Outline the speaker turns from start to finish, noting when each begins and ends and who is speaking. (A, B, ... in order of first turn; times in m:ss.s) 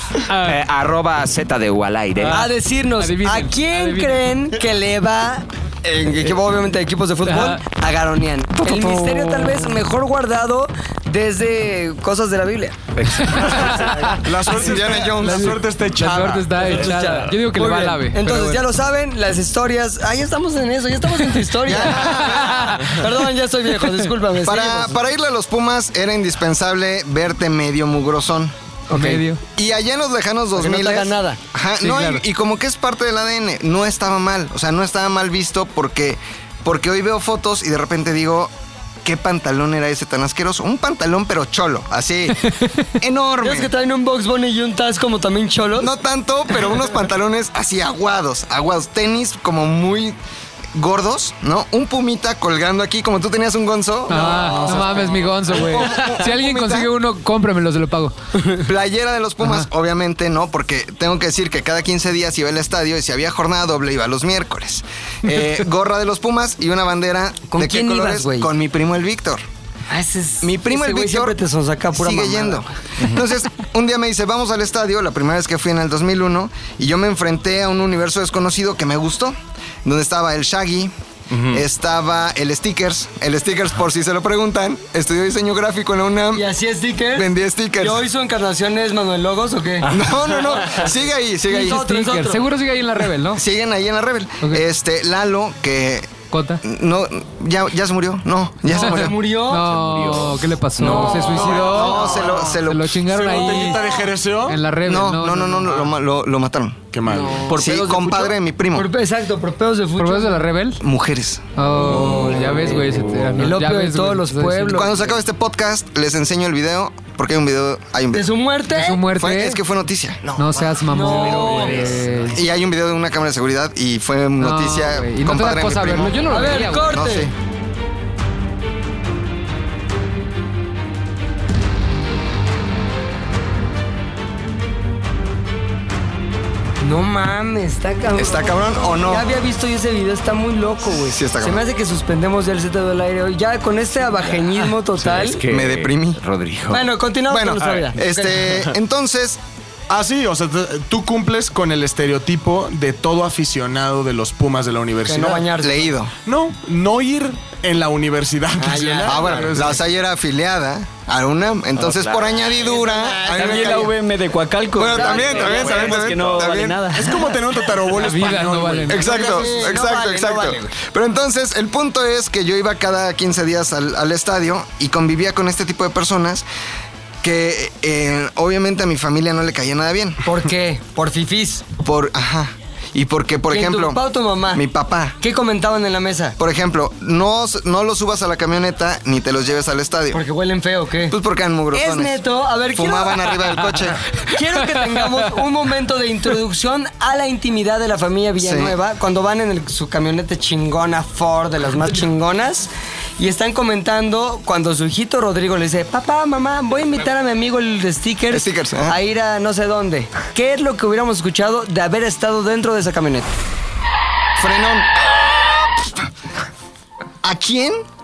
0:00.3-0:00.6 A
0:00.4-0:02.4 B
0:02.2-0:04.3 A
0:02.3-0:12.8 C
0:07.3-0:07.6 A
0:13.0-0:13.6 B
0:13.2-0:14.2 A
0:13.4-0:14.2 C
0:14.2-0:16.6 D
0:14.5-0:15.6 E
0:15.2-0:18.6 A
0:16.0-0:24.9 C
0:21.6-0:22.8 E
0:21.8-0:23.1 A
0:23.8-0:24.1 A
0:24.4-0:28.5 E
0:28.9-0:29.2 C
0:28.9-0:29.4 A
0:29.6-0:38.5 E
0:30.6-0:31.4 C
0:31.8-0:32.2 A
0:39.0-0:42.4 E
0:42.5-0:42.8 A
0:43.0-0:43.7 E
0:43.4-0:45.9 C
0:45.8-0:50.2 E
0:50.8-0:56.9 E
0:54.1-0:58.1 A
0:54.1-0:55.1 C
0:58.6-1:09.4 E
0:59.4-0:59.7 A
1:07.5-1:08.5 C
1:09.9-1:12.7 C
1:10.4-1:11.4 E
1:12.0-1:26.4 E
1:26.3-1:29.9 C
1:27.1-1:28.0 E
1:29.8-1:31.8 E
1:29.9-1:30.4 B
1:31.5-1:32.5 C
1:31.7-1:33.4 A
1:33.3-1:39.2 E
1:36.3-1:36.6 A
1:38.7-1:39.7 C
1:38.7-1:43.8 A
1:39.7-1:40.4 B
1:40.8-1:43.0 E
1:40.8-1:41.8 C
1:42.2-1:44.6 D
1:44.5-1:45.9 A
1:44.8-1:46.9 E
1:46.9-1:47.7 D
1:47.1-1:50.4 C
1:47.5-1:48.9 E
1:50.0-1:50.8 A
1:50.8-1:51.4 E
1:51.6-1:54.9 A
1:51.8-1:52.7 C
1:53.3-1:54.9 C
1:54.7-1:58.3 E
1:58.1-1:59.0 C
1:58.7-1:59.6 A
1:59.1-2:07.3 E
2:00.4-2:02.4 A
2:00.9-2:01.9 C
2:04.4-2:07.0 A
2:06.3-2:07.3 C
2:16.8-2:25.4 C
2:18.2-2:19.3 E
2:20.9-2:21.6 E
2:24.5-2:26.9 B
2:25.4-2:26.2 E
2:26.7-2:28.6 C
2:27.3-2:29.4 E
2:29.9-2:35.5 D
2:35.1-2:35.9 C
2:35.6-2:36.1 E
2:36.3-2:39.8 D
2:38.6-2:39.5 C
2:39.0-2:44.0 E
2:41.8-2:42.4 B
2:42.6-2:43.9 C
2:43.3-2:47.2 F
2:44.7-2:47.0 E
2:44.8-2:45.8 C
2:45.5-2:46.3 B
2:46.9-2:49.6 D
2:48.0-2:49.4 A
2:48.9-2:56.4 E
2:48.9-2:50.8 C
2:57.2-3:00.2 E
3:00.2-3:01.6 C
3:01.8-3:04.0 E
3:03.5-3:04.6 C
3:04.5-3:05.2 E
3:05.2-3:06.4 C
3:06.4-3:10.2 E
3:10.1-3:11.2 C
3:11.1-3:12.2 E
3:11.7-3:13.3 C
3:12.7-3:14.0 E
3:14.3-3:33.3 C
3:18.4-3:18.8 E
3:28.3-3:29.0 E
3:34.4-3:36.1 E
3:37.2-3:37.8 E